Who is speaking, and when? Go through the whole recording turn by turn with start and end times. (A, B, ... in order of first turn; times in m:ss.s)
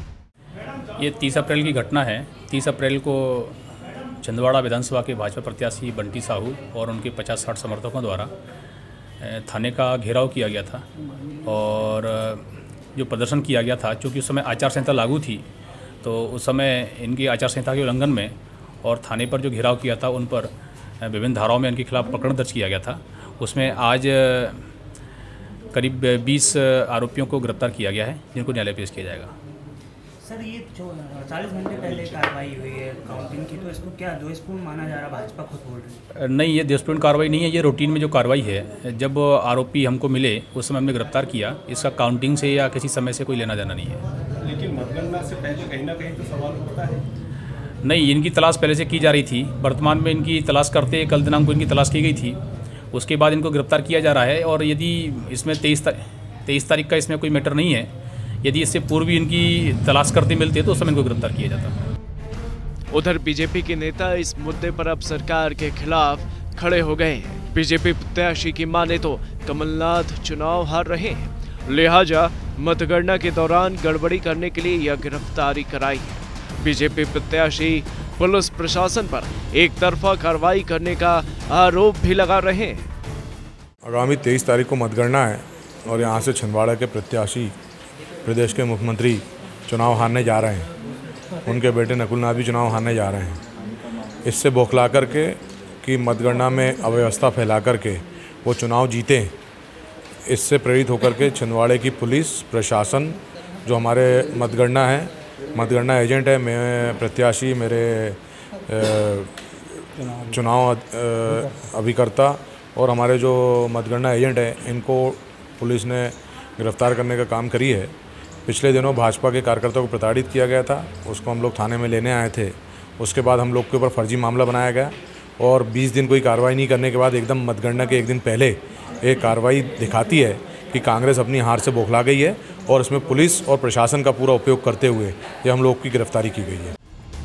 0:01.0-0:03.6 A
0:04.2-0:08.3 A
0:09.2-0:10.8 A
0:11.4-0:12.4 A
0:13.0-0:15.4 A
0:16.0-0:24.6 A
0:25.7-0:29.3 A
0:30.2-0:36.0 B
0:36.2-0:44.0 A
0:44.4-0:47.0 C
0:47.8-0:52.4 A
0:52.9-0:57.9 A
0:58.4-1:01.8 A
1:02.9-1:22.9 D
1:23.8-1:27.5 E
1:28.2-1:30.7 E
1:31.4-1:33.4 E
1:34.2-1:39.3 E
1:40.3-1:57.9 E
1:58.5-2:16.8 E